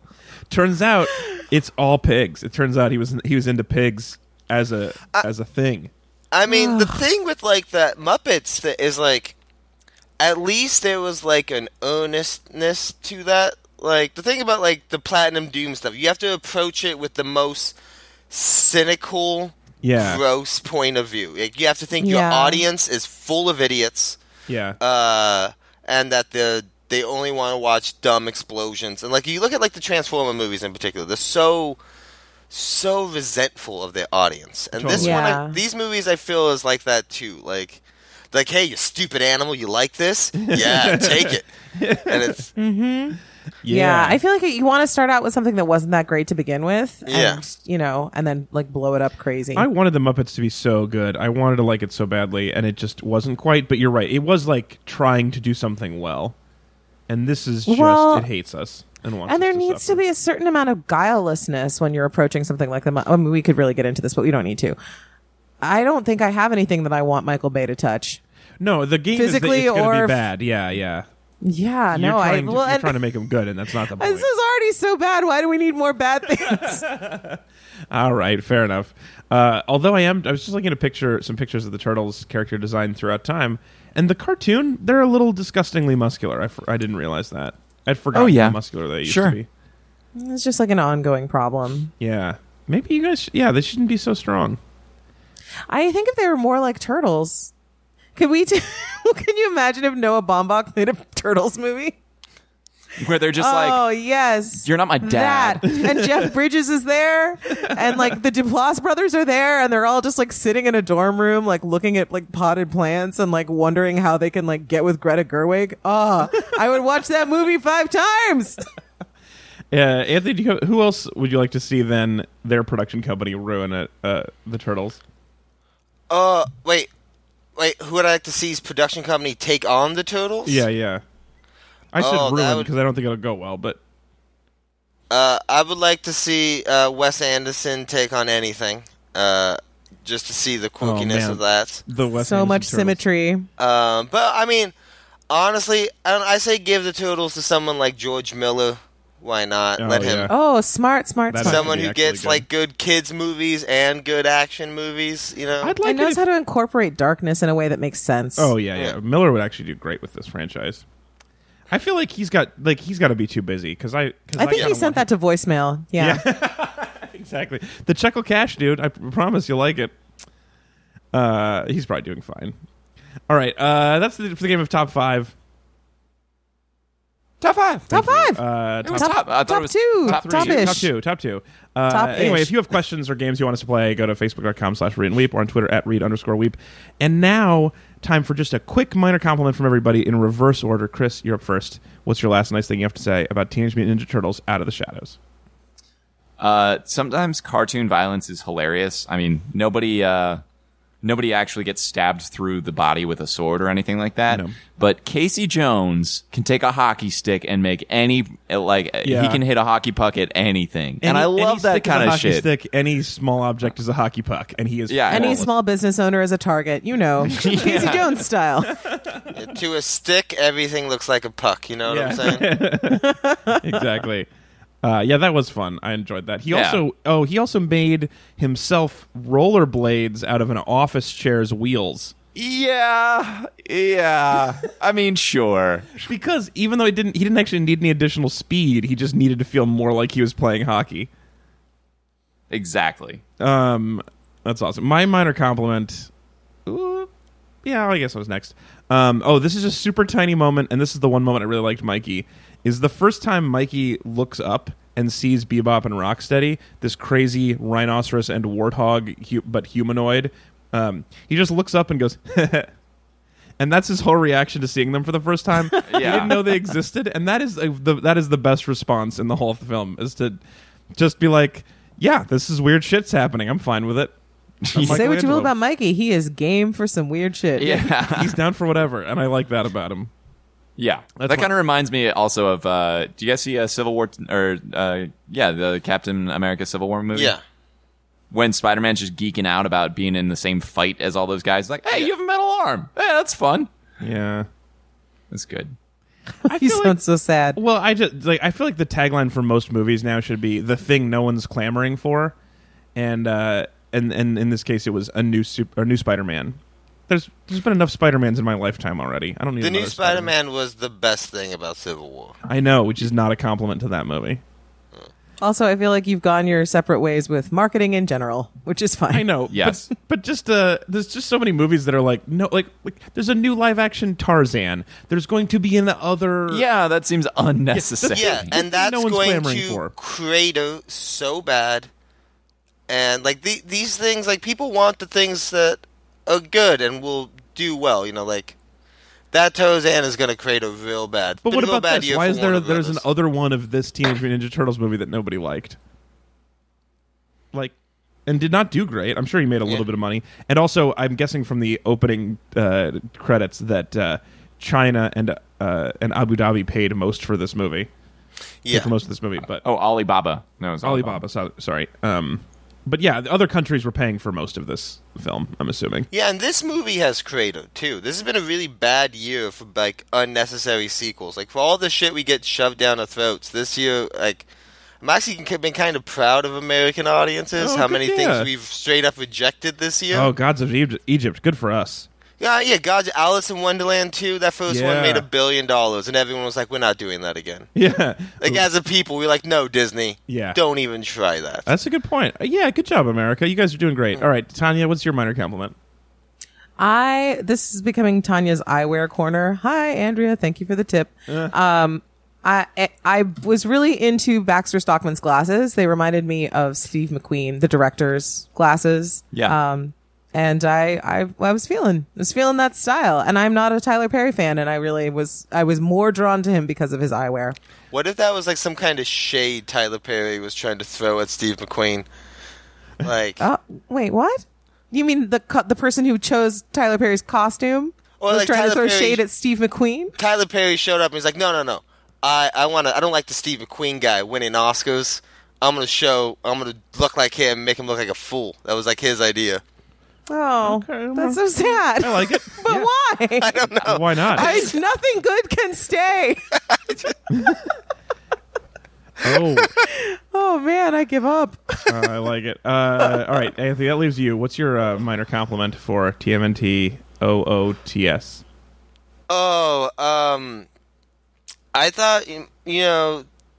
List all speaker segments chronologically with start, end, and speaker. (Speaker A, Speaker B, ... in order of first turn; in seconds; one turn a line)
Speaker A: 0.5-5.9
Speaker B: 6.3-9.3
Speaker C: 6.5-7.0
Speaker B: 10.2-17.8
Speaker B: 18.3-24.2
Speaker A: 19.8-20.2
Speaker C: 22.0-22.6
Speaker A: 24.5-24.8
Speaker B: 24.8-31.8
Speaker B: 32.5-41.5
Speaker A: 34.8-35.2
Speaker C: 35.0-35.6
Speaker A: 40.4-42.4
Speaker B: 42.1-42.5
Speaker C: 42.6-49.7
Speaker A: 43.6-44.2
Speaker B: 47.1-47.4
Speaker A: 49.5-56.4
Speaker A: 57.1-60.0
Speaker C: 57.7-58.3
Speaker C: 59.3-64.8
Speaker C: 65.6-68.2
Speaker A: 68.6-71.1
Speaker C: 69.2-70.2
Speaker C: 71.4-73.0
Speaker A: 71.9-74.3
Speaker C: 74.0-76.9
Speaker A: 76.5-77.4
Speaker A: 77.9-89.5
Speaker D: 88.1-89.4
Speaker C: 90.2-91.9
Speaker A: 92.0-94.6
Speaker C: 95.7-97.5
Speaker C: 98.2-102.0
Speaker D: 103.0-103.8
Speaker C: 103.4-118.6
Speaker D: 104.6-105.7
Speaker A: 105.7-106.0
Speaker A: 107.7-108.1
Speaker A: 119.7-125.0
Speaker B: 126.1-126.9
Speaker B: 127.6-130.7
Speaker A: 130.4-131.0
Speaker A: 131.9-133.8
Speaker B: 132.0-132.7
Speaker B: 135.1-141.8
Speaker A: 140.8-143.0
Speaker C: 142.2-143.5
Speaker B: 143.6-144.7
Speaker B: 145.3-150.3
Speaker A: 149.8-150.3
Speaker C: 150.3-151.8
Speaker A: 151.3-152.5
Speaker B: 151.4-155.8
Speaker A: 155.6-156.2
Speaker C: 155.8-158.5
Speaker A: 158.4-160.8
Speaker A: 161.7-165.1
Speaker C: 164.4-166.2
Speaker A: 166.0-169.9
Speaker A: 171.1-172.6
Speaker A: 173.3-175.3
Speaker D: 177.4-177.9
Speaker A: 177.9-179.2
Speaker C: 177.9-180.9
Speaker D: 178.8-180.8
Speaker A: 180.0-195.2
Speaker C: 181.9-182.5
Speaker D: 196.4-200.4
Speaker D: 201.0-212.5
Speaker A: 204.3-204.6
Speaker A: 209.0-209.4
Speaker A: 211.0-215.5
Speaker D: 214.9-215.4
Speaker C: 215.1-218.8
Speaker D: 217.2-218.1
Speaker A: 218.7-219.3
Speaker B: 219.3-222.5
Speaker A: 221.8-224.3
Speaker C: 222.9-223.7
Speaker A: 224.8-232.1
Speaker D: 226.5-226.8
Speaker D: 232.3-236.0
Speaker A: 236.0-241.1
Speaker D: 242.5-243.2
Speaker A: 243.4-246.1
Speaker A: 246.7-247.1
Speaker A: 247.6-262.7
Speaker A: 263.6-270.4
Speaker C: 265.7-266.4
Speaker D: 265.9-266.4
Speaker A: 270.9-274.1
Speaker D: 274.6-275.0
Speaker A: 274.7-275.5
Speaker C: 274.8-277.9
Speaker D: 277.6-278.4
Speaker A: 278.1-280.1
Speaker D: 280.8-287.4
Speaker A: 281.2-281.5
Speaker B: 287.1-287.4
Speaker D: 288.3-293.7
Speaker A: 294.0-294.5
Speaker D: 295.3-295.8
Speaker A: 296.4-297.0
Speaker C: 296.5-297.6
Speaker A: 297.6-302.4
Speaker A: 302.9-306.6
Speaker A: 307.1-310.3
Speaker B: 309.6-312.4
Speaker A: 312.4-314.4
Speaker C: 315.4-319.3
Speaker A: 319.1-326.6
Speaker D: 319.5-319.8
Speaker D: 326.5-328.6
Speaker A: 327.7-329.9
Speaker B: 328.1-331.9
Speaker B: 332.9-338.6
Speaker B: 339.3-343.1
Speaker A: 341.4-345.8
Speaker A: 348.3-357.9
Speaker B: 358.6-358.9
Speaker A: 358.7-359.6
Speaker D: 359.6-361.2
Speaker A: 360.8-366.1
Speaker B: 366.1-374.5
Speaker B: 375.0-380.3
Speaker A: 377.6-378.5
Speaker A: 380.1-382.1
Speaker B: 382.4-387.7
Speaker A: 384.7-385.3
Speaker A: 387.8-388.6
Speaker B: 388.4-391.7
Speaker A: 390.3-390.6
Speaker A: 391.7-395.8
Speaker C: 396.8-417.6
Speaker A: 401.3-401.5
Speaker B: 417.9-422.1
Speaker B: 423.0-423.4
Speaker C: 423.4-430.1
Speaker B: 428.2-429.2
Speaker B: 430.2-439.6
Speaker C: 440.3-443.6
Speaker A: 440.6-442.9
Speaker B: 443.4-444.7
Speaker A: 443.8-444.6
Speaker C: 444.3-446.4
Speaker B: 446.7-447.1
Speaker A: 447.3-447.7
Speaker A: 449.2-449.7
Speaker C: 449.8-451.9
Speaker A: 451.9-458.4
Speaker B: 459.3-460.7
Speaker B: 461.7-463.3